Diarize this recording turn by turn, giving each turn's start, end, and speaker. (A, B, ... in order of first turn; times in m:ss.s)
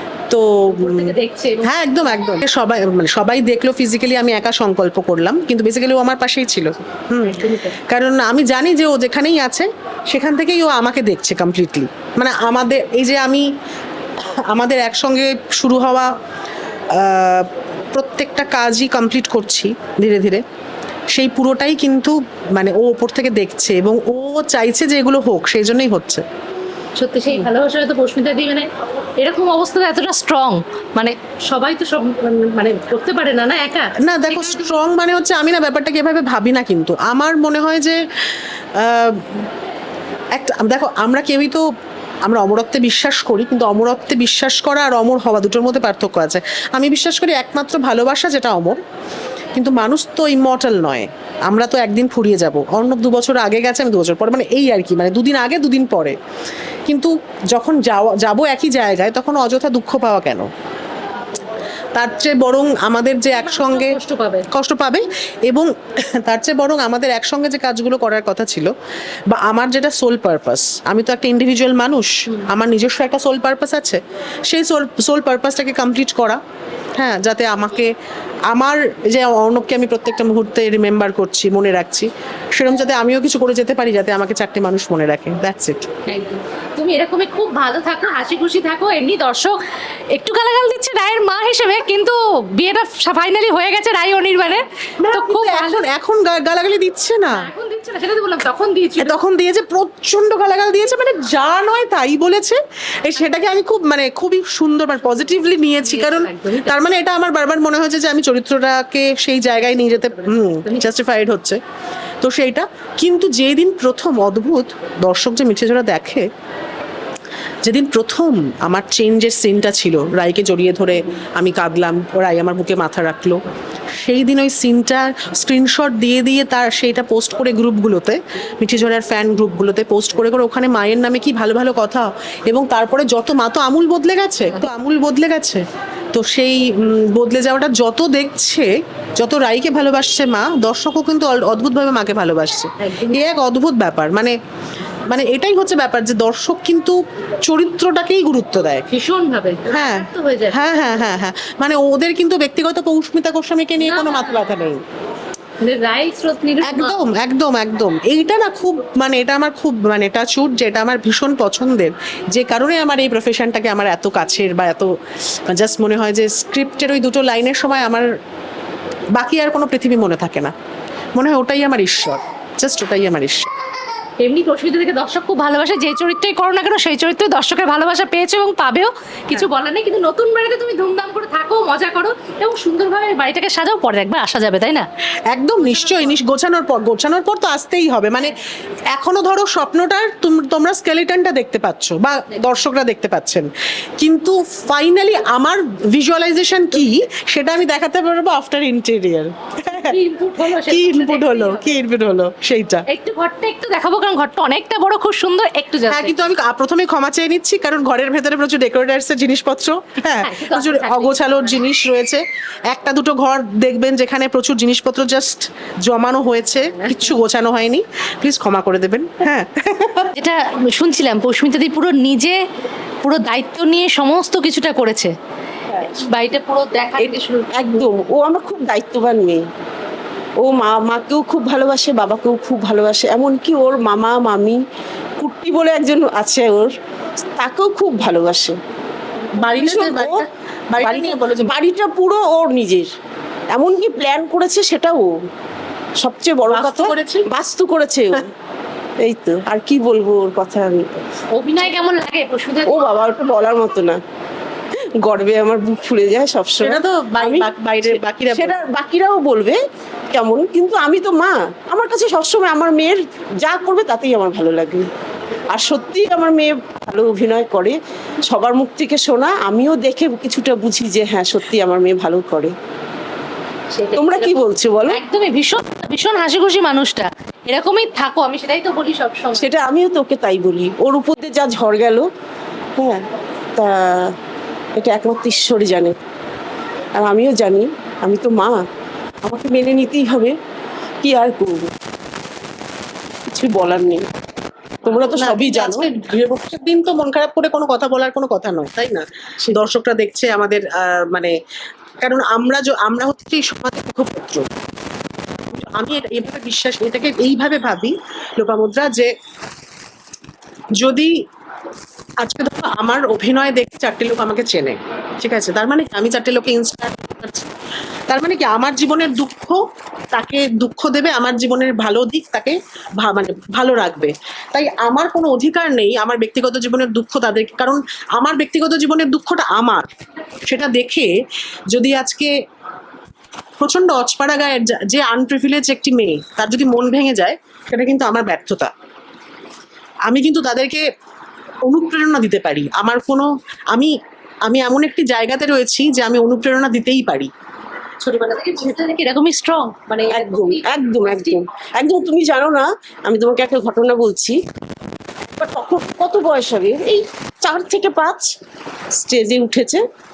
0:00.3-0:13.4 A
0:00.7-0:01.9 B
0:07.2-0:07.7 B
0:14.2-0:16.2 A
0:16.9-0:20.4 A
0:21.1-0:26.2 A
0:27.0-0:28.7 B
0:29.2-0:34.8 B
0:34.0-0:38.0 A
0:38.7-0:39.4 A
0:40.3-0:41.6 A
0:42.2-0:48.8 A
0:49.6-0:56.2 A
0:56.9-1:00.5 A
1:01.9-1:04.0 A
1:03.3-1:04.5 B
1:04.5-1:08.7 A
1:09.3-1:16.4 A
1:17.0-1:17.9 A
1:18.5-1:25.9 A
1:26.1-1:29.6 B
1:30.1-1:35.8 B
1:35.0-1:37.5 A
1:37.3-1:39.1 B
1:39.0-1:51.6 A
1:45.8-1:46.8 B
1:50.6-1:50.8 B
1:52.2-1:56.3 A
1:57.6-2:03.4 A
2:04.0-2:24.4 A
2:22.8-2:23.2 B
2:25.1-2:28.9 A
2:28.9-2:30.6 B
2:29.7-2:34.8 A
2:33.8-2:34.7 B
2:35.6-2:37.0 B
2:36.6-2:44.9 A
2:45.5-2:48.1 A
2:49.1-2:50.5 A
2:51.2-2:53.5 A
2:54.2-3:04.9 B
3:05.3-3:08.4 A
3:05.6-3:06.2 B
3:08.9-3:20.0 A
3:19.7-3:21.8 B
3:20.6-3:22.8 A
3:22.9-3:26.2 B
3:25.9-3:40.1 A
3:30.2-3:31.6 B
3:36.8-3:37.1 B
3:40.1-3:42.4 B
3:43.0-3:45.1 B
3:45.7-3:46.0 C
3:45.9-3:47.8 B
3:47.0-3:49.4 C
3:50.4-3:54.6 C
3:55.2-3:56.7 C
3:57.4-3:58.6 C
3:59.4-4:01.6 A
3:59.5-4:00.2 C
4:00.8-4:02.9 C
4:03.5-4:05.1 C
4:06.0-4:08.3 C
4:06.4-4:07.3 A
4:09.0-4:11.0 C
4:11.3-4:12.9 B
4:12.6-4:14.0 C
4:14.7-4:19.6 C
4:16.6-4:18.6 A
4:20.1-4:24.9 C
4:25.5-4:32.5 C
4:33.7-4:34.3 B
4:33.9-4:35.0 C
4:34.9-4:39.5 B
4:39.3-4:42.1 C
4:42.8-4:44.1 C
4:44.8-4:46.0 C
4:47.0-4:48.6 C
4:49.2-4:50.4 C
4:51.0-4:51.8 C
4:53.3-4:54.1 C
4:54.8-4:55.8 C
4:55.1-5:01.4 A
5:02.0-5:04.5 A
5:05.5-5:09.1 A
5:10.8-5:11.1 A
5:12.2-5:17.5 A
5:18.1-5:29.9 A
5:30.5-5:31.1 A
5:31.7-5:32.3 A
5:33.6-5:38.7 A
5:40.0-5:40.8 A
5:41.6-5:47.3 A
5:48.0-5:51.4 B
5:50.1-5:54.4 C
5:55.4-5:58.4 C
5:58.9-5:59.8 C